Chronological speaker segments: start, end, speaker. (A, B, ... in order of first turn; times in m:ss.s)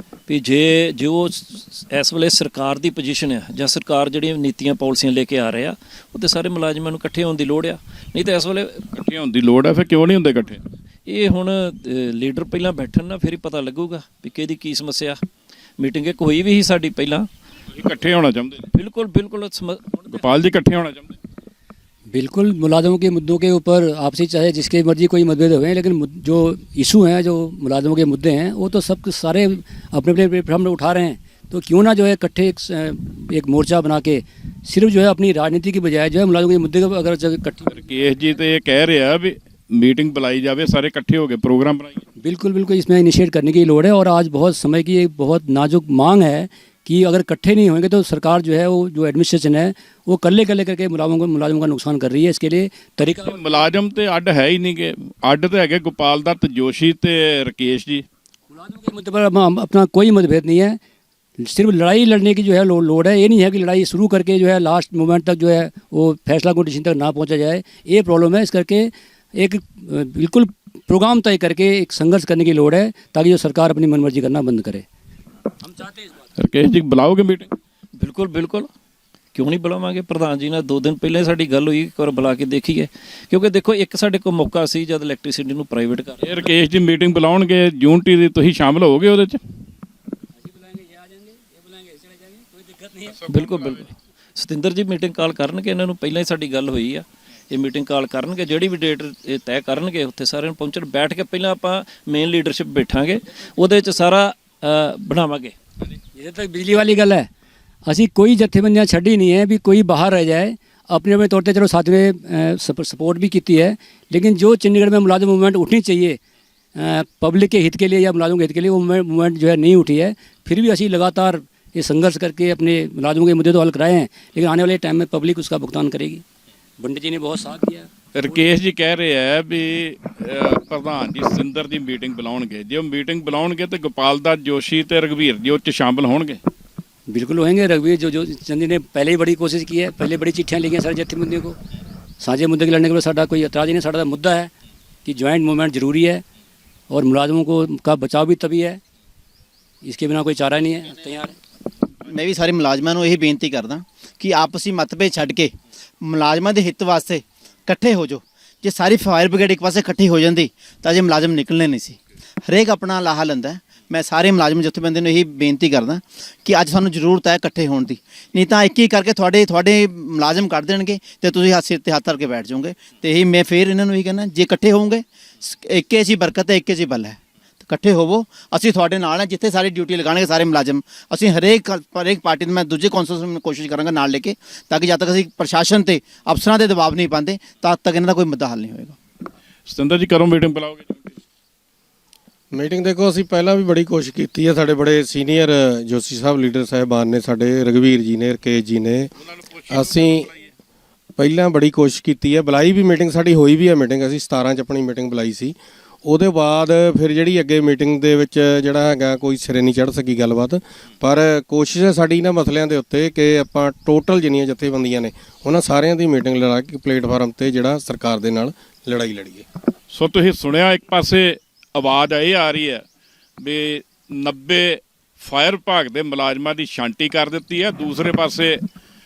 0:00.3-0:08.8 A
0:08.9-0:10.6 B
0:11.0-0:15.2 A
0:15.8-0:17.3 A
0:17.8-0:18.7 B
0:18.7-0:20.2 A
0:20.1-0:21.1 B
0:22.1-0:37.8 C
0:37.7-0:42.0 B
0:42.2-0:53.4 C
0:53.2-0:58.0 B
0:58.5-1:00.8 C
1:01.4-1:14.8 C
1:16.4-1:17.5 B
1:18.0-1:18.7 A
1:19.3-1:26.4 A
1:26.2-1:29.4 B
1:30.5-1:33.2 C
1:33.2-1:33.8 B
1:33.3-1:45.5 A
1:46.1-1:47.3 C
1:47.9-1:56.2 C
1:56.8-2:06.2 C
2:06.8-2:08.4 C
2:08.1-2:16.4 B
2:17.1-2:21.6 C
2:22.2-2:24.5 C
2:25.0-2:26.2 C
2:26.9-2:28.8 C
2:29.8-2:31.3 C
2:32.0-3:09.0 D
3:09.7-3:11.2 B
3:12.5-3:19.1 E
3:19.7-3:20.3 E
3:19.8-3:20.3 B
3:21.2-3:25.5 E
3:26.0-3:39.4 E
3:39.9-3:42.8 B
3:43.4-3:48.6 B